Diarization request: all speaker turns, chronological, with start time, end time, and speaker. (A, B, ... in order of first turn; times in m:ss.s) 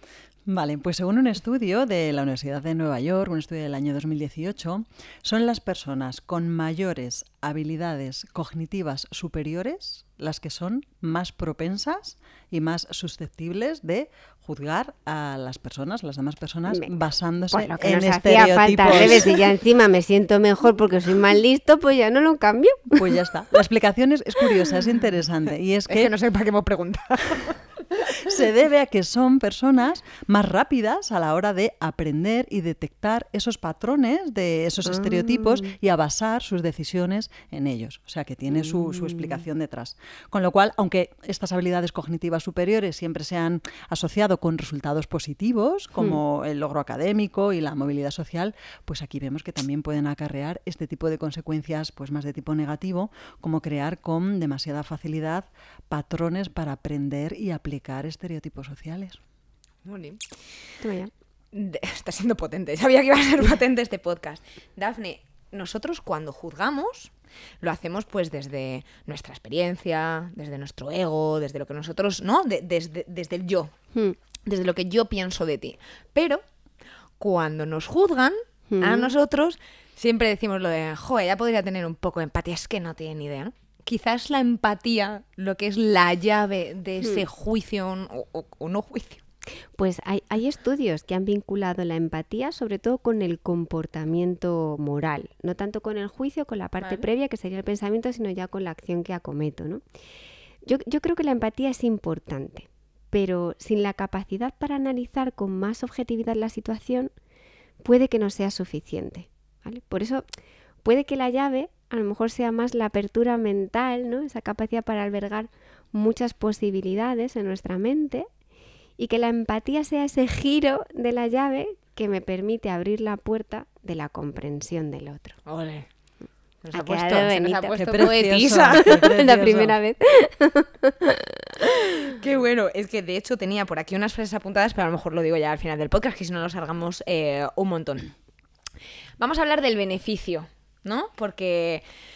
0:00.5-0:19.4 A
0:17.5-0:23.1 B
0:22.9-0:26.1 A
0:25.9-0:27.7 C
0:28.2-0:59.2 A
0:34.8-0:35.7 B
0:38.5-0:39.4 B
0:59.8-1:00.2 C
1:00.8-1:01.1 B
1:01.5-1:13.7 C
1:14.4-1:16.4 C
1:17.2-1:29.2 C
1:18.7-1:19.1 B
1:29.8-1:39.8 B
1:36.8-1:37.1 C
1:40.6-1:47.1 B
1:47.8-1:50.2 B
1:50.8-1:58.3 B
1:59.0-2:05.4 B
2:05.5-2:05.9 C
2:06.6-2:08.9 C
2:06.7-2:08.1 B
2:07.8-2:09.8 A
2:08.7-2:11.5 B
2:12.0-2:18.1 C
2:19.2-2:21.8 C